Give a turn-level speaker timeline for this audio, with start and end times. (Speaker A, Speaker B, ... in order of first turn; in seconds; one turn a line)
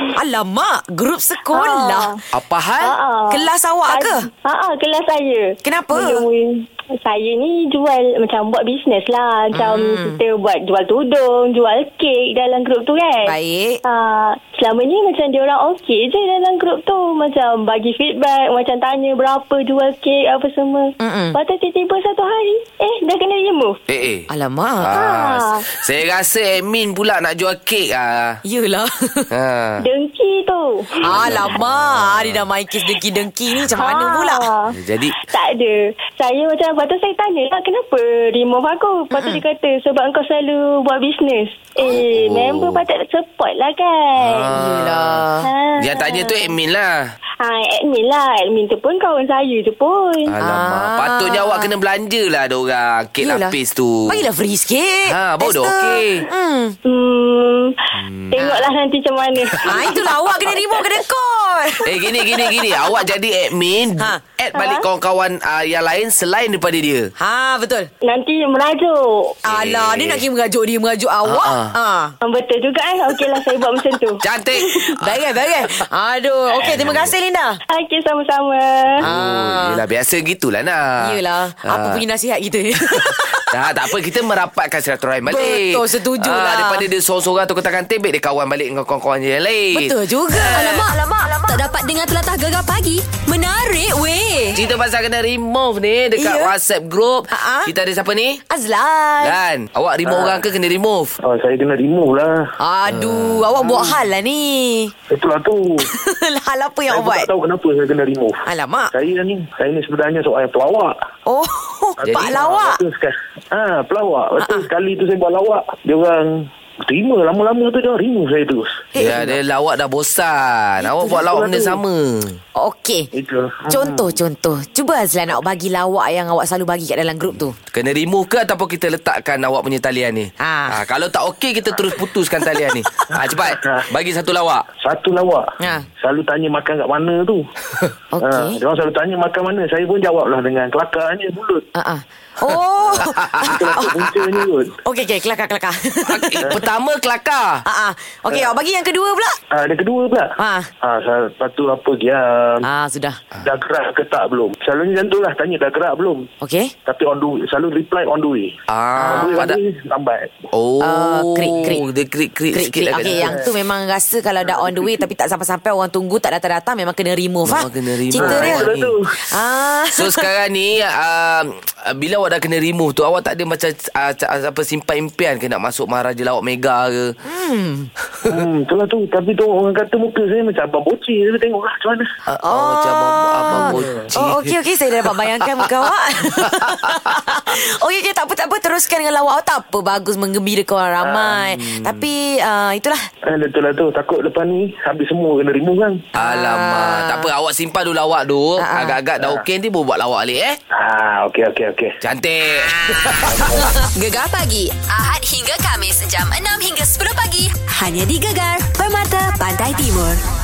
Speaker A: 0.1-2.1
Speaker B: 1.5-2.2
Speaker C: 2.3-2.9
Speaker B: 2.8-13.3
Speaker A: 3.3-4.3
Speaker A: 5.6-6.2
Speaker A: 9.5-10.2
Speaker A: 13.2-13.8
Speaker B: 13.8-23.8
Speaker A: 21.0-21.4
Speaker C: 23.9-24.3
Speaker A: 24.3-24.9
Speaker C: 24.8-28.4
Speaker B: 24.9-25.6
Speaker A: 28.4-29.3
Speaker C: 29.3-29.8
Speaker B: 29.8-31.4
Speaker A: 31.0-34.5
Speaker C: 31.0-32.4
Speaker B: 33.6-34.8
Speaker C: 34.7-35.2
Speaker B: 35.3-44.6
Speaker A: 39.1-39.4
Speaker C: 41.8-42.8
Speaker C: 44.2-45.2
Speaker A: 44.5-45.5
Speaker B: 45.4-46.5
Speaker C: 45.8-47.1
Speaker B: 47.4-50.3
Speaker C: 50.2-54.2
Speaker A: 50.4-51.7
Speaker A: 53.2-53.5
Speaker A: 54.1-56.8
Speaker C: 55.1-56.2
Speaker B: 56.9-60.8
Speaker C: 57.9-58.4
Speaker A: 58.4-58.6
Speaker A: 59.6-61.9
Speaker C: 61.8-67.1
Speaker B: 64.5-64.8
Speaker A: 67.2-67.9
Speaker B: 68.0-69.4
Speaker A: 69.5-72.1
Speaker C: 69.5-70.2
Speaker C: 71.2-71.7
Speaker B: 72.2-74.9
Speaker C: 74.2-75.2
Speaker A: 75.0-77.6
Speaker C: 76.6-77.1
Speaker B: 77.7-79.0
Speaker C: 79.0-82.0
Speaker A: 79.0-79.8
Speaker A: 81.0-83.5
Speaker C: 82.9-90.8
Speaker A: 85.3-86.8
Speaker A: 89.7-91.4
Speaker D: 90.5-94.6
Speaker C: 94.5-98.4
Speaker A: 96.2-96.5
Speaker A: 97.3-97.7
Speaker A: 98.5-99.4
Speaker C: 99.2-101.2
Speaker E: 100.0-100.4
Speaker E: 101.2-102.5
Speaker A: 102.6-104.9
Speaker C: 102.9-103.5
Speaker E: 105.1-105.9
Speaker A: 105.9-107.3
Speaker E: 106.9-110.9
Speaker A: 108.5-108.9
Speaker A: 111.2-112.8
Speaker C: 112.0-112.3
Speaker E: 112.0-118.8
Speaker A: 114.4-114.7
Speaker A: 118.9-119.3
Speaker C: 119.0-122.4
Speaker E: 121.3-121.8
Speaker A: 122.5-123.1
Speaker E: 123.1-124.0
Speaker A: 123.7-127.5
Speaker C: 127.7-134.7
Speaker A: 130.4-130.8
Speaker E: 134.8-137.4
Speaker A: 135.6-135.9
Speaker A: 138.1-138.6
Speaker E: 138.2-141.7
Speaker A: 141.7-143.9
Speaker C: 143.0-144.1
Speaker E: 143.4-144.7
Speaker A: 144.8-146.6
Speaker C: 146.1-147.6
Speaker A: 147.6-149.4
Speaker E: 149.5-152.7
Speaker A: 150.4-150.7
Speaker A: 152.6-153.2
Speaker E: 153.4-156.3
Speaker A: 156.4-156.7
Speaker E: 156.8-160.3
Speaker C: 158.7-159.6
Speaker A: 159.0-159.4
Speaker C: 160.5-163.5
Speaker A: 160.8-161.8
Speaker A: 162.5-168.7
Speaker E: 163.0-163.5
Speaker E: 164.5-164.9
Speaker C: 167.4-168.9
Speaker E: 168.2-169.1
Speaker A: 169.3-170.2
Speaker C: 169.9-177.1
Speaker A: 177.2-177.9
Speaker E: 178.2-182.1
Speaker C: 182.3-187.4
Speaker A: 182.4-193.1
Speaker C: 191.3-192.1
Speaker E: 193.3-196.0
Speaker A: 196.1-197.3
Speaker C: 196.2-200.6
Speaker A: 198.6-199.0
Speaker E: 200.7-201.9
Speaker C: 202.0-203.7
Speaker A: 202.6-203.8
Speaker D: 203.9-210.2